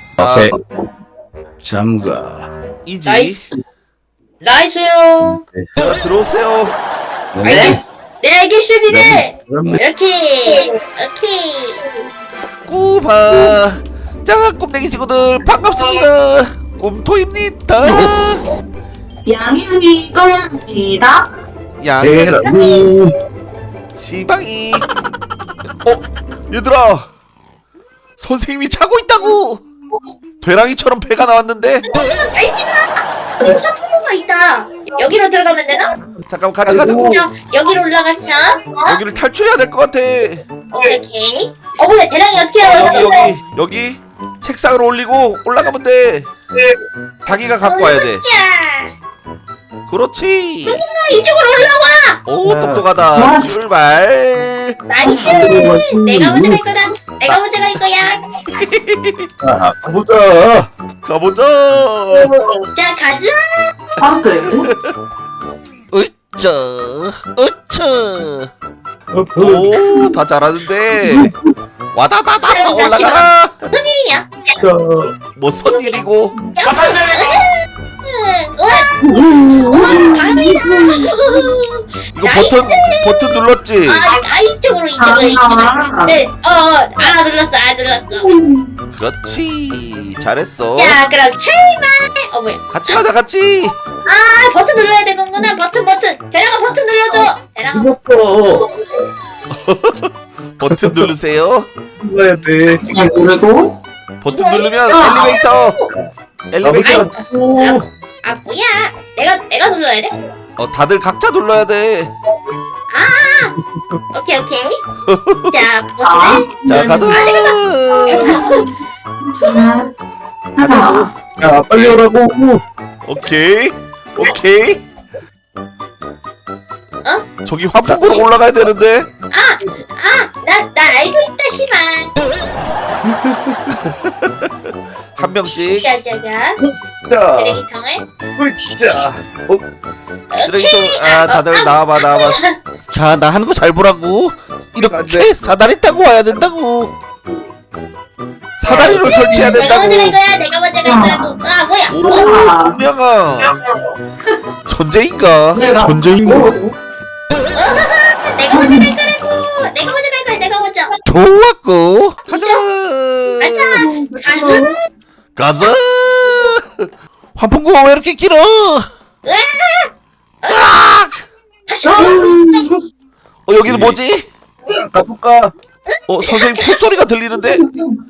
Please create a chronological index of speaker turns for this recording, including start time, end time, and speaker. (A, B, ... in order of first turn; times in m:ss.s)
0:00.2-0:00.5 A
0:00.2-0:00.6 B
0:01.6-0:02.5 B
0:02.9-0:03.4 A
0:03.0-0:03.5 C
0:04.4-0:05.4 C
0:05.8-0:06.7 A
0:07.4-0:07.8 B
0:07.4-0:11.8 C
0:08.9-0:09.8 B
0:12.7-0:18.4 A
0:17.8-0:18.1 D
0:19.3-0:21.3 D
0:21.8-0:22.5 A
0:22.0-0:23.2 B
0:22.4-0:23.0 C
0:24.0-0:24.8 A
0:25.8-0:27.1 A
0:28.2-0:29.6 A
0:30.4-0:31.9 A
0:31.8-0:35.9 C
0:36.3-0:37.2 A
0:36.6-0:37.2 B
0:36.8-0:38.7 C
0:38.8-0:40.4 A
0:40.7-0:43.3 C
0:42.6-0:46.3 A
0:47.2-0:48.2 A
0:47.3-0:48.9 C
0:49.9-0:50.8 A
0:50.7-0:52.2 C
0:52.2-0:54.8 A
0:52.4-0:52.8 B
0:53.1-0:53.6 D
0:54.9-0:58.6 C
0:55.0-0:55.7 D
0:55.0-0:56.6 B
0:58.6-0:59.3 A
0:59.4-1:00.7 B
1:01.0-1:02.3 A
1:02.1-1:02.6 B
1:02.8-1:03.7 C
1:04.0-1:04.7 D
1:04.6-1:04.9 A
1:05.9-1:08.5 A
1:09.1-1:10.2 B
1:09.4-1:11.3 A
1:11.0-1:11.4 B
1:11.9-1:13.7 A
1:12.5-1:14.3 C
1:14.6-1:15.1 B
1:15.4-1:16.3 A
1:15.6-1:16.0 C
1:16.5-1:23.2 C
1:19.0-1:21.4 B
1:22.1-1:24.0 A
1:23.8-1:28.3 C
1:25.0-1:26.2 D
1:28.2-1:28.7 B
1:29.0-1:31.0 A
1:30.8-1:33.0 C
1:32.7-1:33.8 A
1:34.0-1:37.9 C
1:37.7-1:38.7 B
1:39.5-1:41.7 A
1:40.7-1:41.1 B
1:42.0-1:42.8 B
1:42.8-1:43.8 D
1:44.2-1:45.8 A
1:44.3-1:45.9 C
1:44.9-1:45.4 D
1:46.5-1:47.1 A
1:46.6-1:47.8 B
1:46.8-1:50.2 C
1:50.6-1:52.1 A
1:52.9-1:53.6 C
1:54.1-1:54.8 C
1:55.1-1:55.5 A
1:55.5-1:58.7 C
1:56.0-1:56.5 D
1:56.7-1:58.4 A
1:58.1-1:58.7 D
1:59.3-1:59.9 D
1:59.4-1:59.7 C
2:00.6-2:01.1 D
2:00.6-2:02.6 B
2:03.0-2:04.8 A
2:07.4-2:09.1 A
2:07.8-2:08.2 B
2:09.3-2:12.1 C
2:13.1-2:13.8 B
2:13.7-2:14.5 A
2:15.2-2:15.9 A
2:15.5-2:16.6 C
2:16.6-2:17.6 B
2:17.3-2:18.0 C
2:18.4-2:19.6 B
2:20.3-2:22.6 C
2:20.4-2:26.9 A
2:24.8-2:25.5 B
2:28.6-2:30.2 A
2:28.6-2:32.4 C
2:29.1-2:29.5 B
2:30.8-2:31.4 D
2:31.9-2:33.6 A
2:32.1-2:32.8 D
2:34.7-2:36.5 A
2:35.5-2:36.6 D
2:36.3-2:36.6 B
2:37.6-2:41.0 C
2:38.5-2:38.9 D
2:41.1-2:43.8 A
2:42.3-2:42.6 C
2:43.4-2:44.8 C
2:43.8-2:44.7 B
2:45.4-2:46.8 A
2:47.4-2:48.9 A
2:49.2-2:49.9 C
2:50.4-2:50.7 C
2:50.5-2:51.3 A
2:51.7-2:52.7 C
2:51.8-2:52.8 B
2:53.5-2:54.3 A
2:53.6-2:54.0 B
2:54.7-2:55.5 B
2:55.9-2:57.0 C
2:56.1-2:57.6 A
2:57.6-2:58.0 D